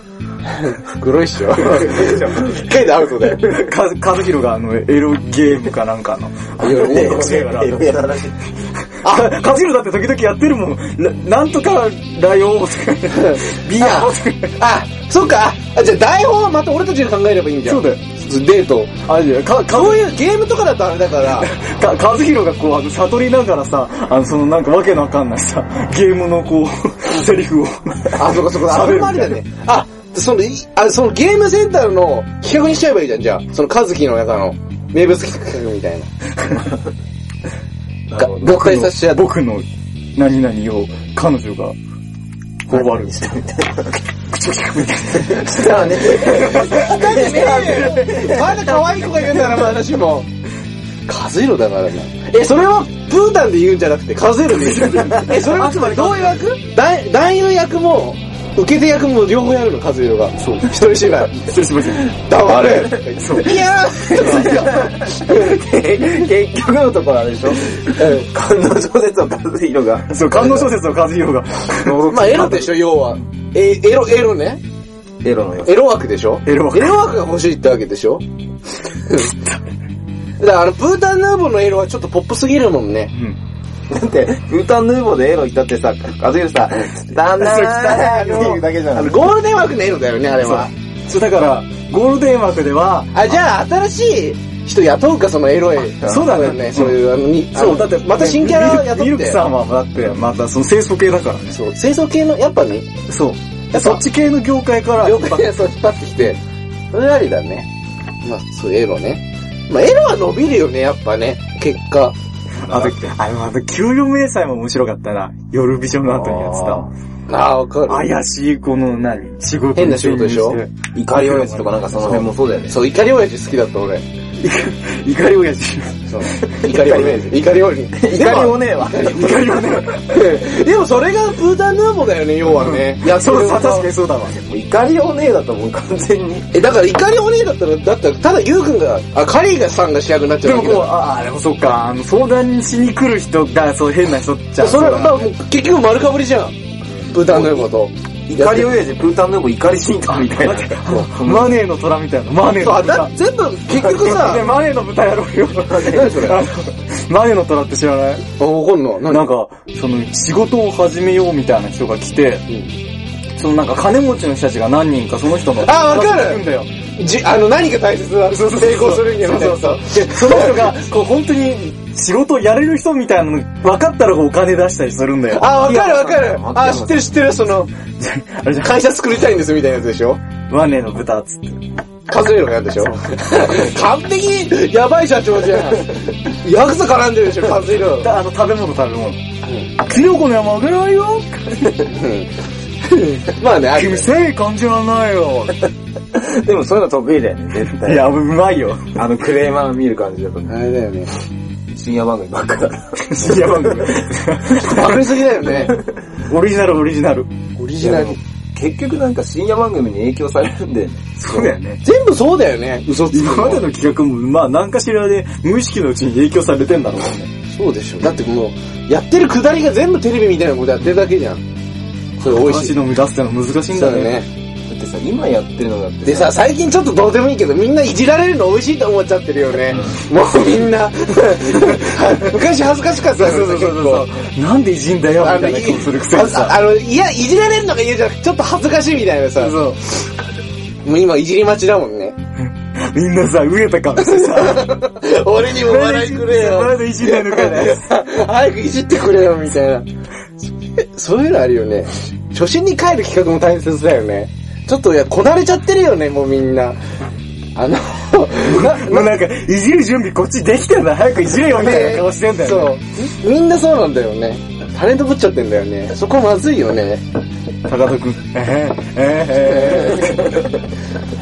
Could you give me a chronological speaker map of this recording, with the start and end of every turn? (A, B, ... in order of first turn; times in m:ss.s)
0:00.6-0:03.5 A
0:01.8-0:02.5 B
0:03.4-0:07.8 C
0:06.6-0:07.4 A
0:06.6-0:08.4 B
0:09.0-0:14.6 C
0:13.2-0:18.9 A
0:17.7-0:18.0 C
0:19.0-0:20.1 C
0:19.7-0:21.5 A
0:21.4-0:29.4 C
0:28.2-0:36.1 A
0:38.1-0:38.5 B
0:38.2-0:39.2 A
0:38.4-0:41.8 C
0:42.7-0:43.3 C
0:42.7-0:44.0 B
0:44.3-0:46.9 C
0:45.2-0:48.5 B
0:45.5-0:50.3 A
0:48.0-0:49.4 C
0:51.1-1:05.6 A
0:54.5-0:56.4 C
1:00.4-1:02.2 C
1:03.2-1:04.9 C
1:04.7-1:10.6 B
1:08.0-1:08.3 A
1:10.1-1:12.7 C
1:11.8-1:14.6 A
1:15.2-1:15.8 B
1:15.6-1:18.2 A
1:16.5-1:17.0 C
1:19.1-1:19.3 A
1:20.4-1:23.1 A
1:23.9-1:29.3 B
1:27.4-1:28.6 C
1:27.5-1:30.7 A
1:30.4-1:33.4 C
1:33.1-1:39.4 A
1:36.0-1:41.6 C
1:41.5-1:42.9 A
1:43.1-1:45.5 C
1:43.7-1:44.0 A
1:45.0-1:46.4 A
1:46.9-1:47.7 A
1:48.2-1:52.2 A
1:52.6-1:56.9 C
1:56.1-1:58.1 A
1:57.9-2:02.2 C
1:59.8-2:00.6 A
2:00.9-2:02.8 B
2:02.0-2:04.0 A
2:04.4-2:06.0 C
2:06.1-2:13.9 A
2:06.6-2:07.4 B
2:07.9-2:09.2 B
2:09.1-2:10.2 C
2:12.5-2:14.4 C
2:14.3-2:16.5 B
2:16.5-2:20.9 A
2:20.4-2:25.3 C
2:24.6-2:26.6 A
2:26.9-2:27.7 B
2:27.1-2:28.7 A
2:28.3-2:31.6 B
2:30.1-2:33.1 C
2:32.6-2:34.5 A
2:33.8-2:38.3 C
2:35.7-2:36.4 A
2:38.4-2:39.3 A
2:39.1-2:42.4 C
2:43.4-2:46.7 C
2:45.6-2:46.4 A
2:47.0-2:50.8 A
2:48.3-2:55.5 C
2:55.3-2:57.7 A
2:55.5-2:57.1 B
2:58.0-2:58.8 C
2:58.6-3:00.2 A
3:00.5-3:01.6 C
3:02.1-3:08.1 A
3:08.0-3:09.2 C
3:09.4-3:09.7 A
3:09.8-3:11.6 C
3:11.9-3:12.3 A
3:12.9-3:14.1 A
3:13.8-3:15.6 C
3:16.1-3:18.1 B
3:17.8-3:18.9 C
3:19.0-3:20.7 B
3:20.5-3:21.1 A
3:21.7-3:24.0 B
3:23.0-3:25.0 C
3:24.5-3:25.8 A
3:26.3-3:27.3 C
3:27.6-3:28.2 A
3:27.8-3:31.1 B
3:31.2-3:31.8 C
3:31.4-3:33.6 A
3:33.1-3:37.3 C
3:37.5-3:41.4 A
3:42.2-3:42.8 A
3:42.2-3:44.2 C
3:43.7-3:44.3 A
3:44.7-3:46.4 B
3:46.0-3:54.1 A
3:53.1-3:56.6 C
3:55.2-3:59.6 A
3:59.4-3:59.8 C
4:00.8-4:02.2 A
4:02.4-4:04.8 C
4:04.0-4:09.9 A
4:05.5-4:07.9 C
4:10.8-4:16.8 A
4:17.6-4:19.1 A
4:18.4-4:22.8 C
4:21.4-4:27.0 A
4:27.7-4:30.4 C
4:29.4-4:30.2 A